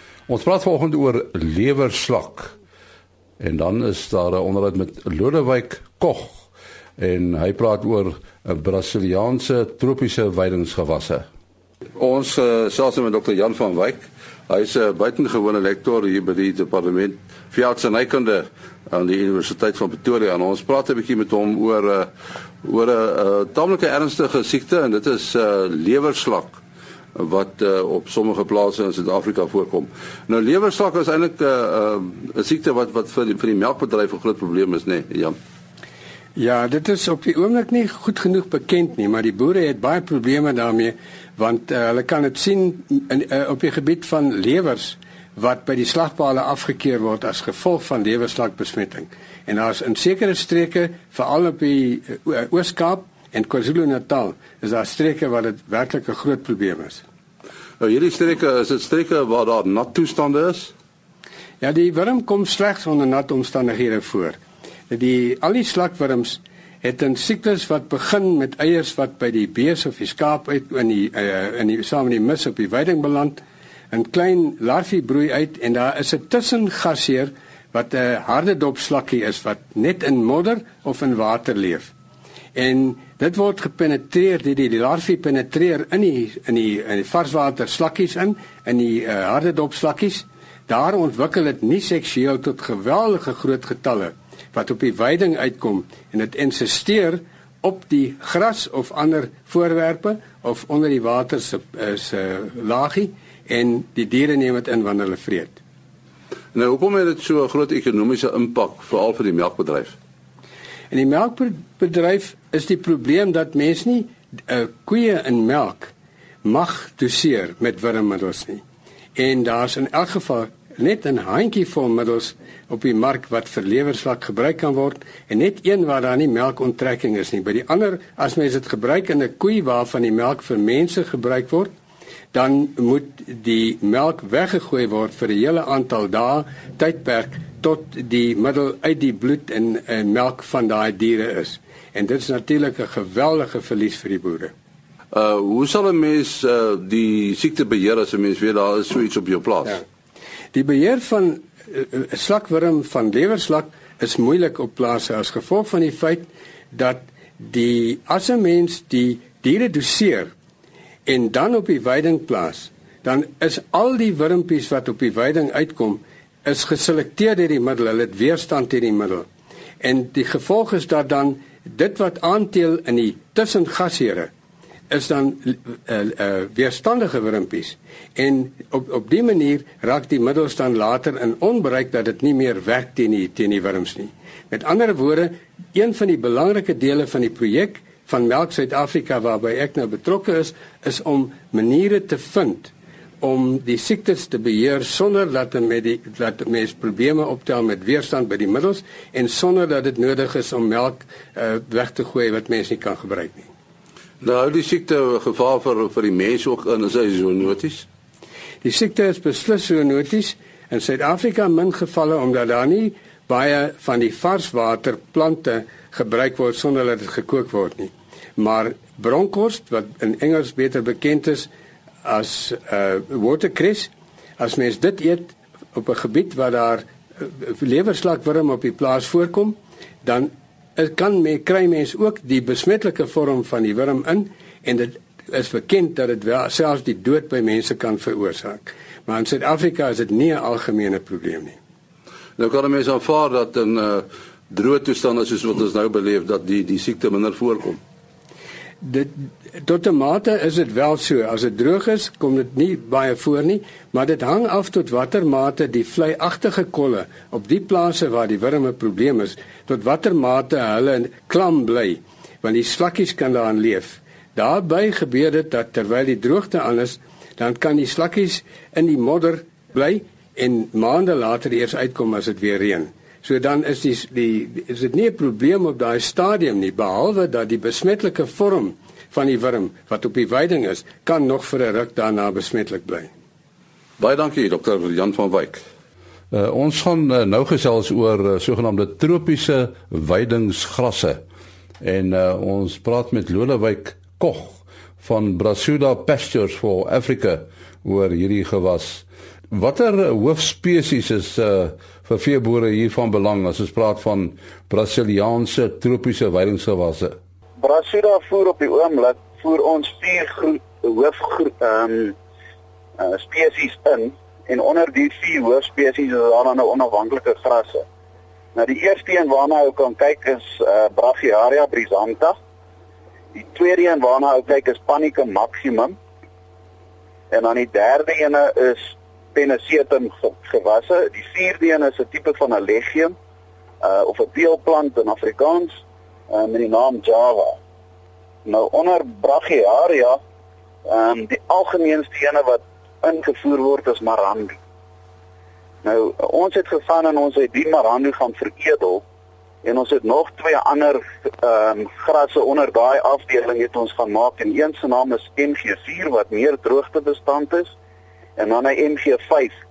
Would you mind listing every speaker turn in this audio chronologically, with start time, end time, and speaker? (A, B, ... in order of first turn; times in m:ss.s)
0:00.3-0:02.5 A
0:03.4-0:06.4 A
0:07.0-0:11.2 A
0:12.0-0:22.1 A
0:22.6-0:26.6 A
0:27.2-0:35.4 A
0:36.4-0:57.0 B
0:57.8-1:00.7 A
1:01.6-1:04.4 B
1:04.9-1:21.9 B
1:22.6-1:45.6 B
1:46.5-1:50.0 A
1:50.9-1:55.9 B
1:56.4-1:58.6 B
1:59.2-2:11.7 B
2:12.3-2:24.5 B
2:25.1-2:29.8 A
2:30.5-2:40.3 B
2:41.1-2:49.3 B
2:49.8-2:54.3 B
2:54.9-3:23.5 B
3:24.2-3:27.9 A
3:28.6-3:41.5 B
3:42.0-4:01.6 B
4:02.4-4:07.8 A
4:08.8-4:43.1 B
4:44.0-4:45.6 A
4:46.3-4:51.2 A
4:51.8-5:07.2 A
5:07.6-5:12.2 C
5:13.0-5:17.8 C
5:18.6-5:22.4 C
5:23.3-5:26.0 C
5:27.3-5:33.2 C
5:33.8-5:37.6 C
5:38.4-5:40.2 C
5:40.9-5:44.6 C
5:45.8-5:49.0 C
5:49.6-5:57.8 C
5:58.4-5:59.6 C